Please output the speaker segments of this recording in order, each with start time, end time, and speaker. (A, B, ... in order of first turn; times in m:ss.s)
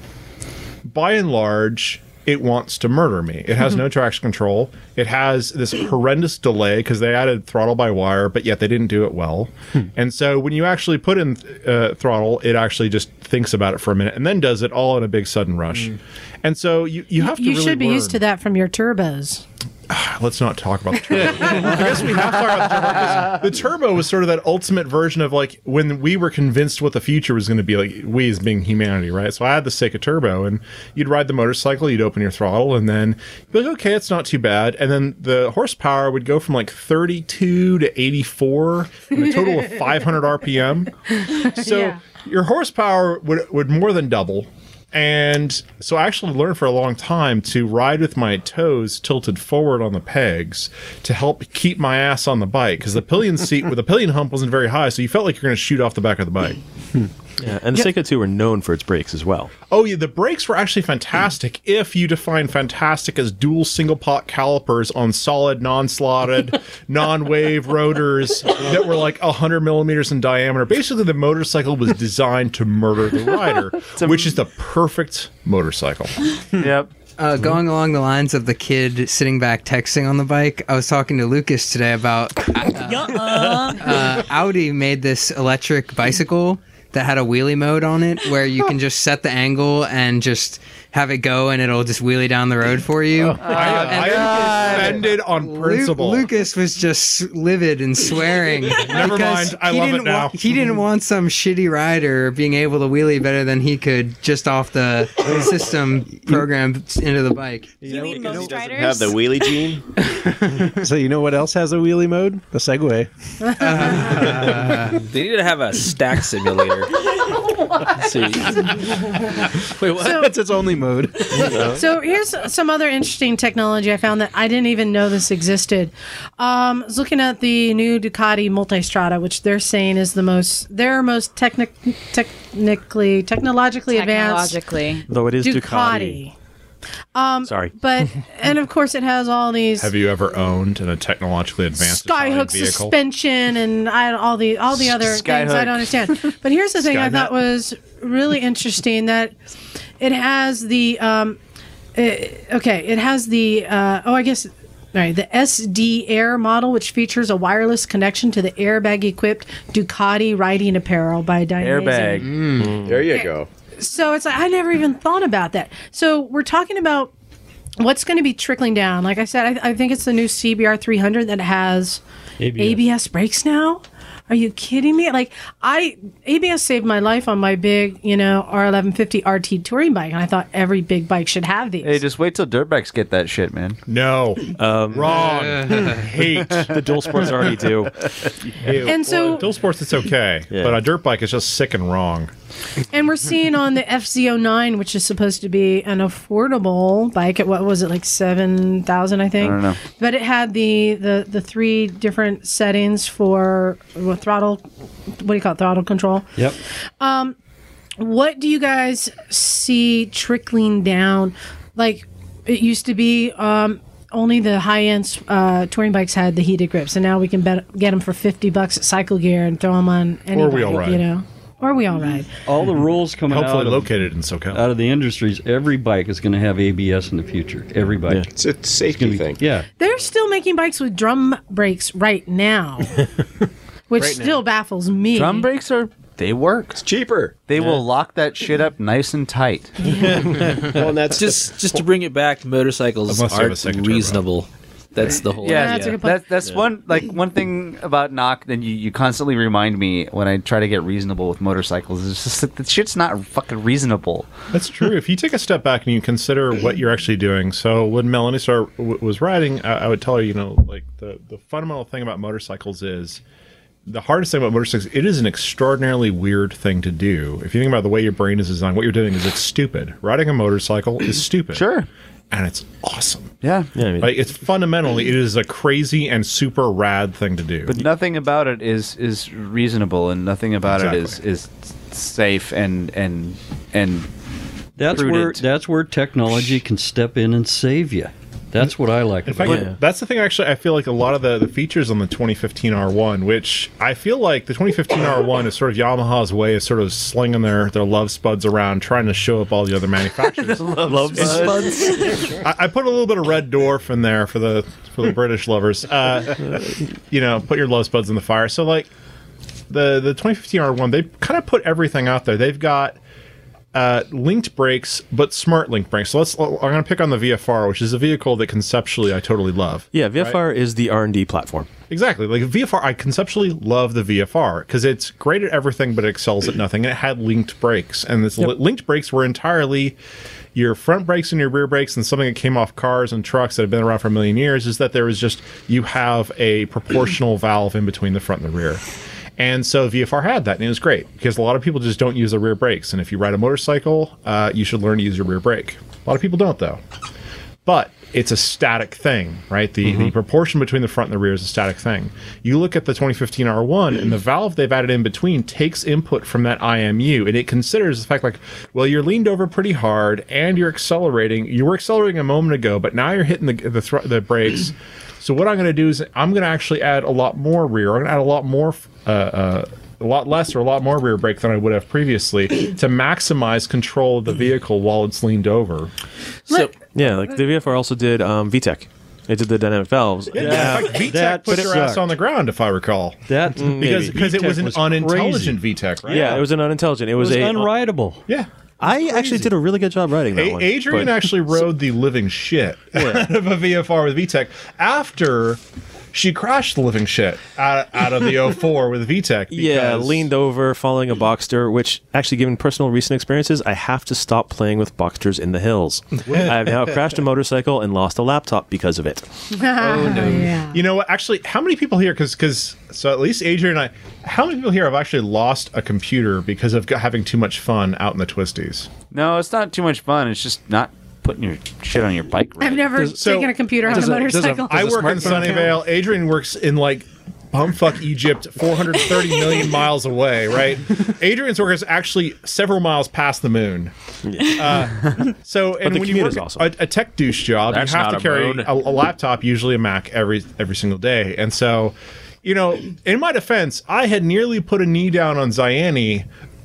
0:00.9-0:18.2 A
0:17.2-0:19.4 B
0:19.9-0:56.6 A
0:41.2-0:42.0 B
0:57.4-0:59.5 C
0:59.7-1:16.2 A
1:14.0-1:14.4 D
1:16.6-1:16.9 D
1:17.2-1:47.8 E
1:22.9-1:23.8 F
1:23.2-1:23.6 D
1:33.3-1:36.3 A
1:33.4-1:35.1 D
1:38.8-1:40.6 A
1:47.8-1:49.6 F
1:47.9-1:49.8 G
1:48.1-1:48.7 H
1:50.6-1:53.1 I
1:53.4-1:54.3 B
1:53.6-1:55.0 E
1:55.1-1:57.0 H
1:57.9-2:00.3 H
2:00.0-2:00.3 B
2:00.0-2:01.7 I
2:01.5-2:14.6 B
2:13.9-2:15.1 F
2:15.1-2:16.2 C
2:15.4-2:16.3 B
2:17.2-2:19.9 B
2:17.4-2:18.0 C
2:19.8-2:23.0 A
2:21.8-2:29.4 B
2:24.8-2:26.1 D
2:26.8-2:27.4 A
2:30.0-2:31.4 B
2:32.0-2:42.3 B
2:41.6-2:42.4 D
2:42.2-2:42.8 E
2:42.6-2:43.0 C
2:42.8-2:43.5 G
2:43.1-2:47.1 B
2:47.8-2:52.0 B
2:52.4-2:52.8 J
2:52.6-3:02.0 B
3:01.8-3:03.8 D
3:03.9-3:06.8 A
3:04.6-3:05.3 C
3:05.2-3:06.0 E
3:06.6-3:08.1 C
3:08.6-3:12.3 A
3:08.8-3:09.5 B
3:10.5-3:10.8 C
3:12.9-3:24.6 B
3:19.4-3:19.8 D
3:25.2-3:26.3 B
3:27.0-3:27.4 B
3:28.0-3:42.3 B
3:40.3-3:41.0 A
3:42.5-3:44.0 J
3:43.3-3:44.6 A
3:44.5-3:48.3 J
3:48.3-3:49.4 G
3:48.9-3:49.7 J
3:49.8-3:53.0 B
3:53.9-3:55.5 B
3:54.0-3:54.4 I
3:55.1-3:56.8 D
3:56.8-3:57.4 G
3:57.5-3:59.8 D
4:00.6-4:01.8 G
4:01.1-4:06.0 H
4:03.1-4:04.2 A
4:05.4-4:06.2 B
4:05.4-4:14.3 D
4:14.5-4:23.2 A
4:23.9-4:31.7 A
4:31.5-4:31.9 D
4:32.3-4:33.3 A
4:33.4-4:33.7 D
4:33.8-4:34.1 C
4:34.0-4:37.8 A
4:37.7-4:44.1 D
4:40.7-4:41.2 A
4:44.8-4:49.7 J
4:44.8-4:45.4 D
4:49.2-5:08.9 A
4:49.4-4:49.8 C
5:00.4-5:02.3 D
5:00.7-5:02.2 C
5:09.7-5:13.0 A
5:13.7-5:20.4 A
5:19.9-5:21.7 C
5:21.9-5:30.0 A
5:30.6-5:38.8 A
5:39.4-5:46.8 A
5:47.6-6:15.9 A
5:49.8-5:50.1 C
6:16.9-6:21.8 C
6:20.3-6:26.4 A
6:20.4-6:22.1 J
6:23.3-6:26.4 J
6:23.6-6:24.4 C
6:26.1-6:27.7 C
6:27.2-6:28.2 J
6:28.3-6:29.5 A
6:28.8-6:31.5 C
6:30.4-6:35.6 A
6:33.0-6:33.3 C
6:36.1-6:40.3 A
6:39.5-6:49.3 C
6:49.5-6:50.8 B
6:50.1-6:58.9 A
6:59.1-7:03.0 D
7:02.6-7:05.7 B
7:03.1-7:13.9 A
7:14.2-7:14.9 C
7:14.4-7:26.2 A
7:15.8-7:16.7 C
7:17.7-7:18.7 H